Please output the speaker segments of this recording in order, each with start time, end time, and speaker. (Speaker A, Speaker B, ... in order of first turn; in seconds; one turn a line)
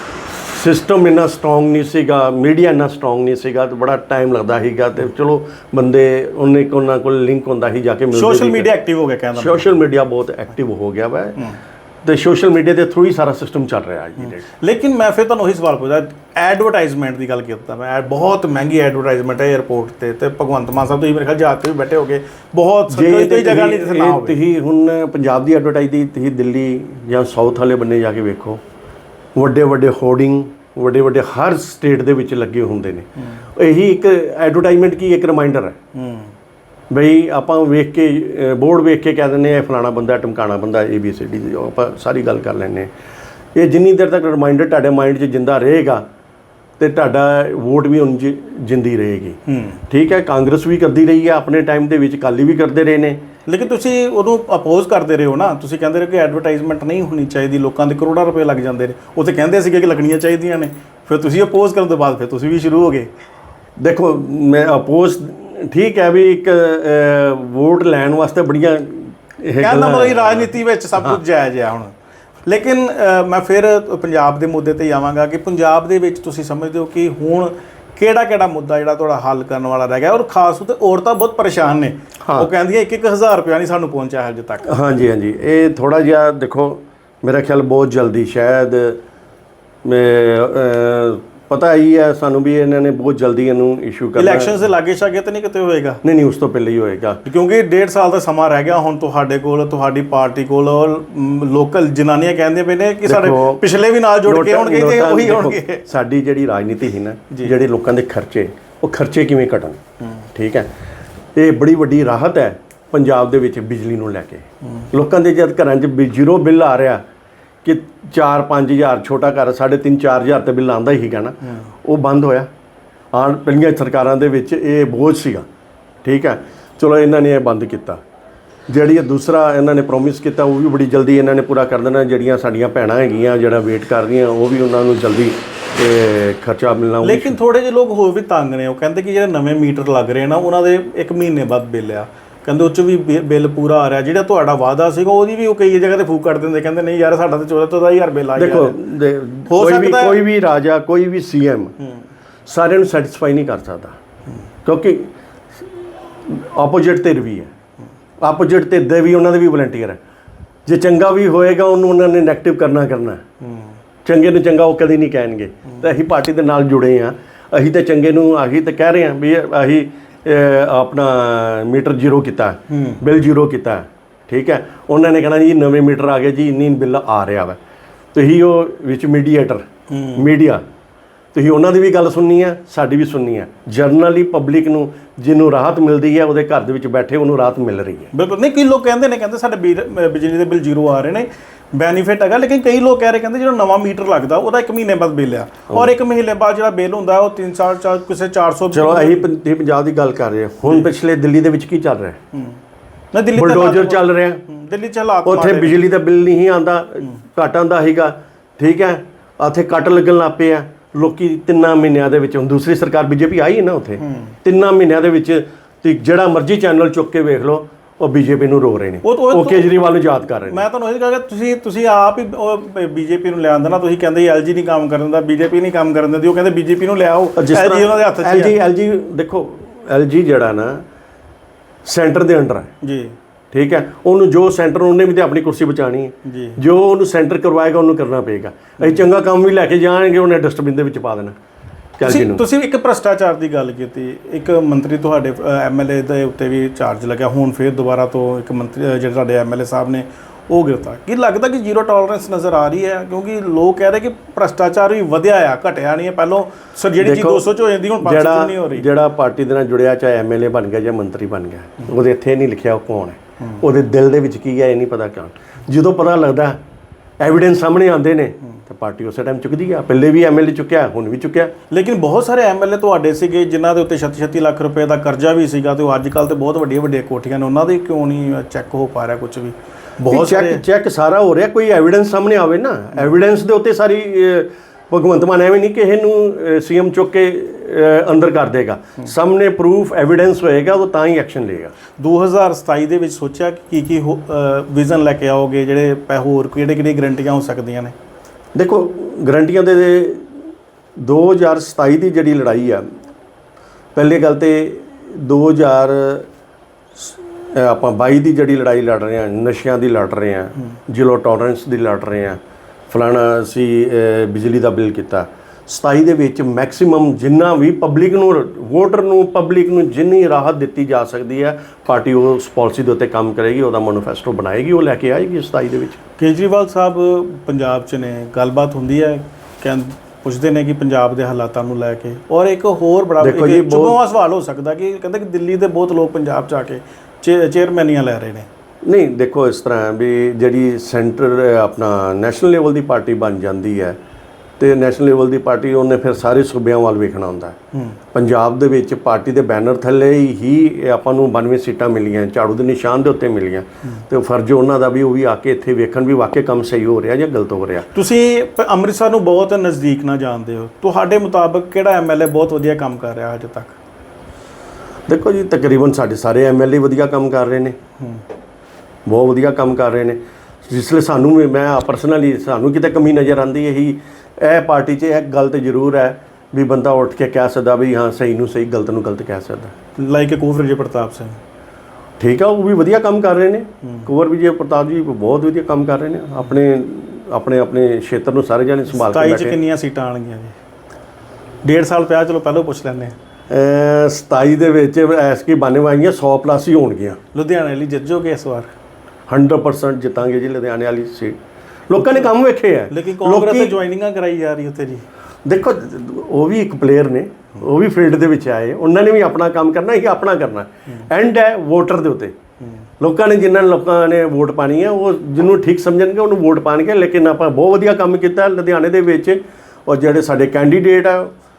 Speaker A: 0.4-8.7
Speaker B: 8.1-9.7
Speaker A: 9.3-11.4
Speaker A: 12.0-14.4
Speaker B: 14.5-24.4
Speaker A: 22.9-28.6
Speaker A: 29.3-35.8
Speaker B: 35.9-36.3
Speaker A: 36.9-42.9
Speaker A: 43.5-46.0
Speaker A: 46.8-53.2
Speaker B: 49.5-49.8
Speaker B: 53.5-63.1
Speaker A: 63.8-71.2
Speaker B: 69.6-71.9
Speaker B: 72.5-84.8
Speaker A: 82.2-82.5
Speaker A: 84.6-89.0
Speaker A: 89.8-94.5
Speaker B: 94.2-96.0
Speaker A: 96.0-97.2
Speaker B: 97.2-105.8
Speaker A: 103.0-103.6
Speaker A: 104.2-109.8
Speaker A: 110.3-110.7
Speaker A: 111.3-117.0
Speaker A: 117.6-122.5
Speaker A: 123.1-125.5
Speaker A: 126.0-128.0
Speaker A: 128.7-137.3
Speaker B: 137.0-148.8
Speaker A: 148.3-151.7
Speaker B: 149.5-150.2
Speaker A: 152.4-153.9
Speaker A: 154.6-157.5
Speaker A: 158.2-160.0
Speaker A: 160.7-163.2
Speaker A: 164.0-177.6
Speaker B: 172.7-173.0
Speaker A: 178.1-180.6
Speaker B: 179.9-180.2
Speaker A: 181.3-188.1
Speaker B: 188.1-199.2
Speaker A: 198.7-202.2
Speaker B: 203.1-205.8
Speaker A: 203.3-204.4
Speaker A: 205.2-220.6
Speaker B: 214.0-214.3
Speaker B: 219.0-219.7
Speaker B: 220.4-228.5
Speaker A: 227.3-230.8
Speaker A: 231.8-232.7
Speaker B: 232.8-233.1
Speaker A: 233.5-241.3
Speaker B: 236.2-236.6
Speaker A: 242.0-242.4
Speaker B: 242.0-258.9
Speaker A: 257.0-266.6
Speaker A: 267.2-271.5
Speaker B: 271.7-280.6
Speaker A: 280.1-291.7
Speaker B: 292.0-297.9
Speaker A: 298.5-300.3
Speaker A: 301.0-302.9
Speaker A: 303.9-306.3
Speaker A: 306.9-326.0
Speaker B: 326.2-338.5
Speaker A: 333.2-334.0
Speaker A: 338.8-344.0
Speaker A: 344.6-347.6
Speaker A: 348.1-357.9
Speaker B: 357.9-363.8
Speaker A: 365.1-367.8
Speaker A: 369.1-379.7
Speaker B: 380.0-381.4
Speaker A: 382.2-389.6
Speaker B: 388.9-390.5
Speaker B: 391.6-393.1
Speaker A: 393.5-397.2
Speaker B: 397.3-398.7
Speaker A: 399.3-401.4
Speaker A: 401.9-403.8
Speaker B: 402.0-402.3
Speaker B: 402.9-405.0
Speaker A: 405.4-412.3
Speaker A: 413.0-421.3